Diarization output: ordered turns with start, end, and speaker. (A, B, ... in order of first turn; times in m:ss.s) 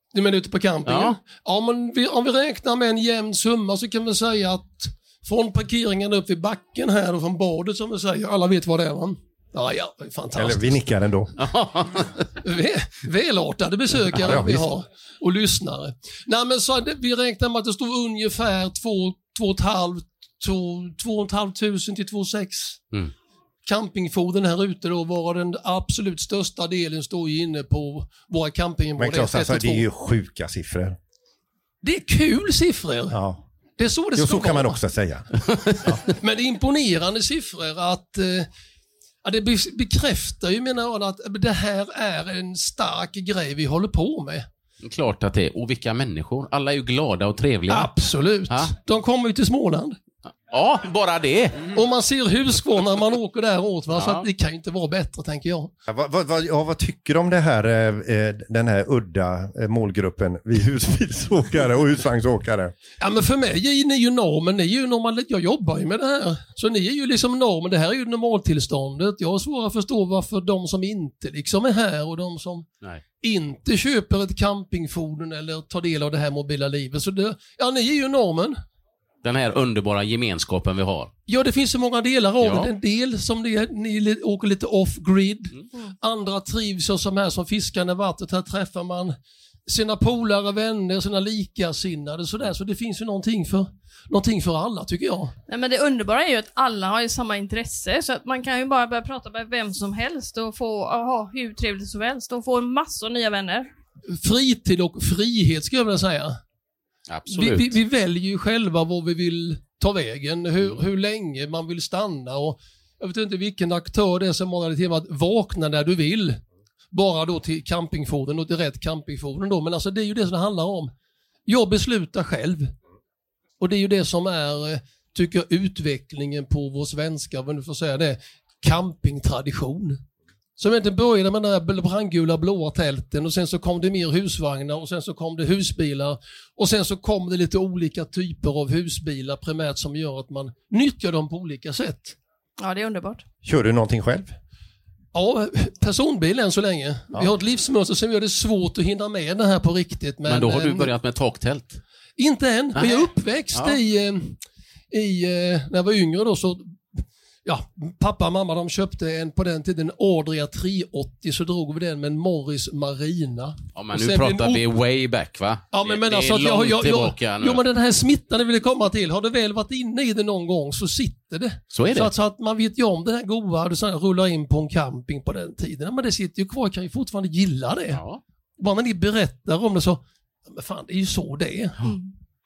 0:00.1-0:10.8 A
0:00.8-0:01.2 B
0:10.3-0:11.3 C
0:11.4-0:12.2 B
0:12.4-0:22.8 A
0:14.2-0:14.6 C
0:23.6-0:29.8 A
0:29.0-0:31.0 C
0:31.8-0:33.2 A
0:33.1-0:33.4 C
0:33.8-0:34.8 A
0:34.2-0:35.3 C
0:36.1-0:38.5 A
0:39.2-0:44.5 A
0:44.8-0:47.9 B
0:47.7-0:50.0 A
0:50.5-0:51.7 B
0:51.7-0:55.7 A
0:53.9-0:54.2 B
0:55.9-1:02.7 C
1:03.0-1:12.7 A
1:13.2-1:18.6 A
1:19.2-1:21.1 B
1:21.3-1:29.2 A
1:22.4-1:22.7 B
1:29.7-1:35.3 A
1:35.5-1:43.7 D
1:44.1-1:46.4 A
1:47.1-1:47.8 B
1:47.3-2:00.9 A
2:01.5-2:02.7 A
2:03.6-2:10.0 A
2:10.6-2:22.2 A
2:22.6-2:23.2 D
2:23.4-2:24.3 C
2:25.1-2:30.9 A
2:30.2-2:31.8 B
2:32.2-2:34.4 A
2:32.7-2:33.8 B
2:34.9-2:44.6 A
2:43.7-2:47.6 B
2:45.7-2:58.0 A
2:51.7-2:52.1 B
2:57.9-2:58.2 B
2:58.6-3:01.8 A
3:01.8-3:02.1 D